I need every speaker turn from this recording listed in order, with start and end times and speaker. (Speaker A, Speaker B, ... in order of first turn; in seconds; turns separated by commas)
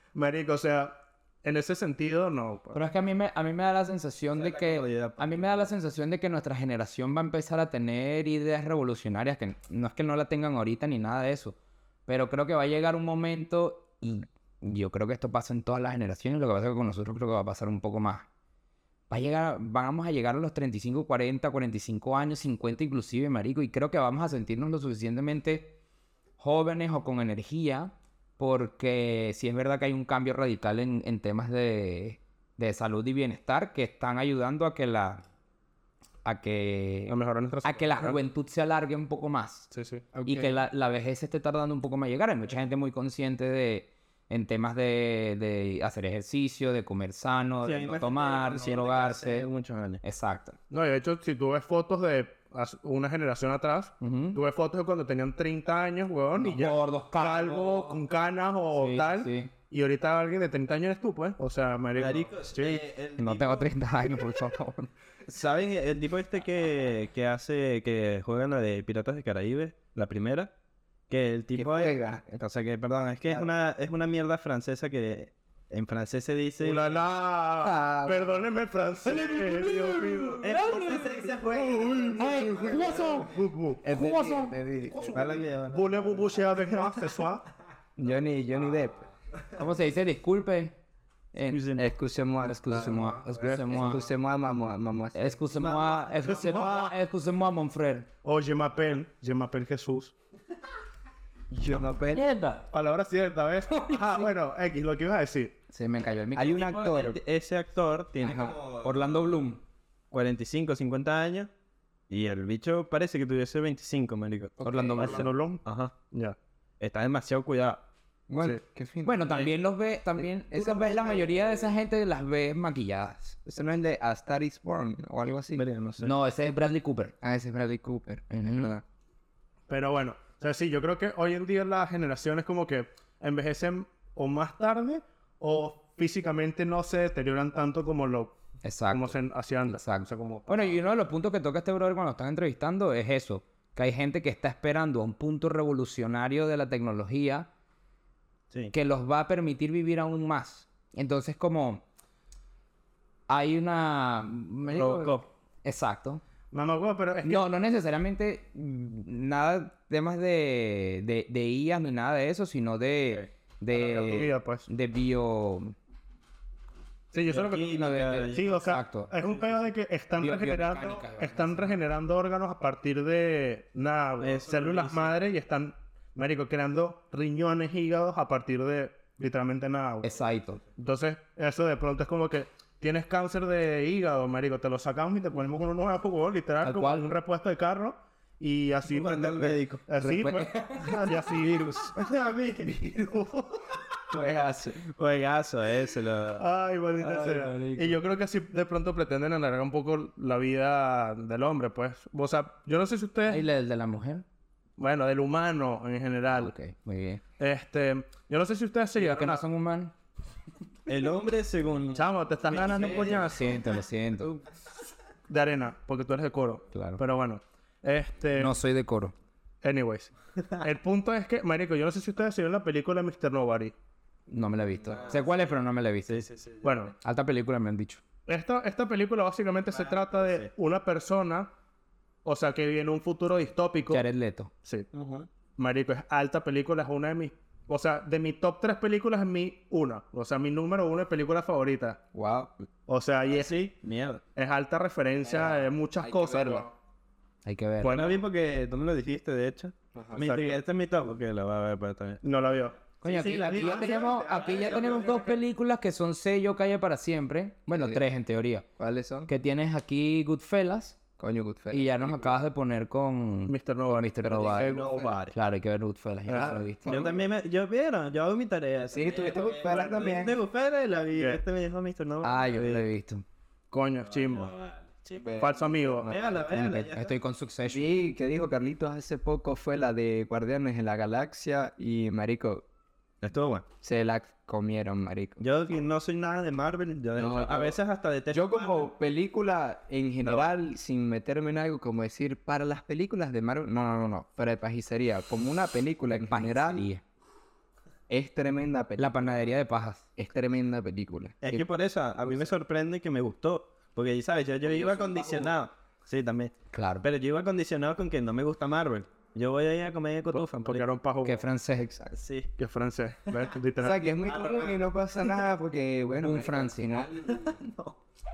Speaker A: 0.1-2.8, Speaker B: 2.7-11.6, Speaker C: 4.3-5.7, Speaker B: 12.1-18.3, Speaker B: 19.1-25.8, Speaker B: 26.4-35.2, Speaker B: 36.2-39.7, Speaker A: 37.1-38.2, Speaker A: 39.7-40.1, Speaker B: 40.3-49.5, Speaker C: 47.6-50.0, Speaker B: 50.0-50.6, Speaker A: 50.7-62.8, Speaker B: 54.0-54.4, Speaker B: 56.4-58.0, Speaker B: 58.8-59.5, Speaker C: 62.0-63.7, Speaker B: 63.2-64.9, Speaker C: 65.3-70.5, Speaker C: 71.1-77.0, Speaker D: 71.5-72.2, Speaker A: 76.6-83.8, Speaker D: 77.6-78.4, Speaker B: 79.3-81.0, Speaker C: 80.4-83.2, Speaker D: 80.6-83.2, Speaker B: 82.2-83.3, Speaker D: 83.8-85.5, Speaker B: 83.8-84.6, Speaker C: 84.9-86.4, Speaker A: 85.0-87.5, Speaker D: 88.0-89.1, Speaker B: 89.6-90.8, Speaker B: 91.3-91.6, Speaker C: 91.5-91.9, Speaker D: 91.8-95.4, Speaker B: 92.7-94.1, Speaker A: 93.3-93.7, Speaker B: 95.2-98.1, Speaker C: 95.5-96.7, Speaker A: 96.3-96.9, Speaker A: 98.2-100.1, Speaker D: 101.5-102.3, Speaker B: 102.1-102.6, Speaker A: 102.7-105.5, Speaker B: 103.8-104.2, Speaker B: 105.7-106.6, Speaker D: 106.3-107.2, Speaker C: 106.4-109.2, Speaker D: 108.2-108.6, Speaker B: 108.8-109.6, Speaker C: 110.1-111.5, Speaker C: 112.1-115.9, Speaker D: 114.6-115.0, Speaker B: 114.6-115.3, Speaker A: 115.0-116.4, Speaker C: 116.8-117.8, Speaker D: 118.3-119.2, Speaker B: 119.0-123.4, Speaker D: 120.5-121.3, Speaker D: 123.5-125.6, Speaker C: 125.5-126.1, Speaker B: 126.0-127.1, Speaker D: 127.2-128.8, Speaker A: 129.7-138.4, Speaker B: 138.6-139.2, Speaker A: 138.9-140.8, Speaker B: 139.7-147.5, Speaker B: 148.7-151.8, Speaker B: 153.3-156.2, Speaker C: 154.7-155.3, Speaker A: 156.5-157.4, Speaker B: 157.2-165.8, Speaker A: 163.7-164.7, Speaker A: 167.1-180.1, Speaker C: 167.3-168.6, Speaker B: 167.8-169.1, Speaker B: 170.2-171.8, Speaker C: 174.2-175.1, Speaker B: 180.0-180.6, Speaker A: 180.8-192.0, Speaker B: 186.6-187.1, Speaker C: 188.9-189.8, Speaker B: 190.0-191.1, Speaker C: 192.0-192.8, Speaker A: 192.9-193.4, Speaker D: 194.1-194.8, Speaker C: 194.8-196.4, Speaker A: 196.4-203.4, Speaker D: 197.0-197.9, Speaker B: 203.3-204.2, Speaker A: 204.8-206.5, Speaker B: 206.4-207.2, Speaker A: 207.4-209.4, Speaker B: 209.0-209.9, Speaker C: 210.9-213.3, Speaker A: 211.9-213.5, Speaker B: 213.2-214.3, Speaker A: 215.3-218.6, Speaker B: 216.7-217.0, Speaker B: 218.4-219.2, Speaker A: 219.6-223.7, Speaker B: 224.3-226.2, Speaker C: 224.9-225.3, Speaker C: 226.1-226.8, Speaker A: 226.6-226.9, Speaker B: 227.0-228.0, Speaker A: 228.3-231.5, Speaker C: 229.7-230.5, Speaker A: 232.2-234.0, Speaker B: 233.9-234.5, Speaker C: 234.9-235.3, Speaker A: 235.6-242.0, Speaker D: 242.1-242.5, Speaker A: 242.9-243.7, Speaker C: 243.3-244.2, Speaker A: 244.4-246.7, Speaker D: 245.3-246.7, Speaker B: 247.4-248.0, Speaker A: 247.8-248.1, Speaker C: 247.8-252.2, Speaker D: 249.9-250.2, Speaker A: 250.2-250.6, Speaker A: 252.2-252.8, Speaker B: 253.0-258.7, Speaker C: 253.0-255.4, Speaker D: 253.3-254.7, Speaker D: 257.7-258.0, Speaker D: 258.8-259.3, Speaker B: 259.3-261.0, Speaker D: 261.2-262.3, Speaker B: 261.7-264.7, Speaker A: 263.5-264.1, Speaker C: 264.3-265.3, Speaker D: 264.3-265.2, Speaker B: 265.3-267.1, Speaker A: 266.3-266.6, Speaker D: 266.3-267.1, Speaker C: 266.9-272.9, Speaker D: 268.9-270.4, Speaker A: 271.1-271.4, Speaker B: 272.2-273.2, Speaker A: 273.7-274.5, Speaker C: 274.1-275.4, Speaker D: 275.1-276.9, Speaker A: 275.4-276.1, Speaker C: 276.0-277.1, Speaker B: 276.6-277.9, Speaker D: 277.7-282.6, Speaker C: 283.2-283.6, Speaker D: 283.8-285.4, Speaker C: 285.4-288.9, Speaker D: 287.1-287.8, Speaker D: 288.3-296.9, Speaker B: 296.3-297.0, Speaker D: 298.1-299.2, Speaker B: 299.0-300.1, Speaker D: 300.2-301.6, Speaker C: 301.4-310.9, Speaker B: 306.7-307.1, Speaker A: 310.6-311.4, Speaker B: 311.2-312.1, Speaker C: 312.1-312.5, Speaker A: 312.6-314.1, Speaker D: 313.8-317.6, Speaker C: 314.3-314.7, Speaker B: 316.2-316.9, Speaker C: 317.3-318.0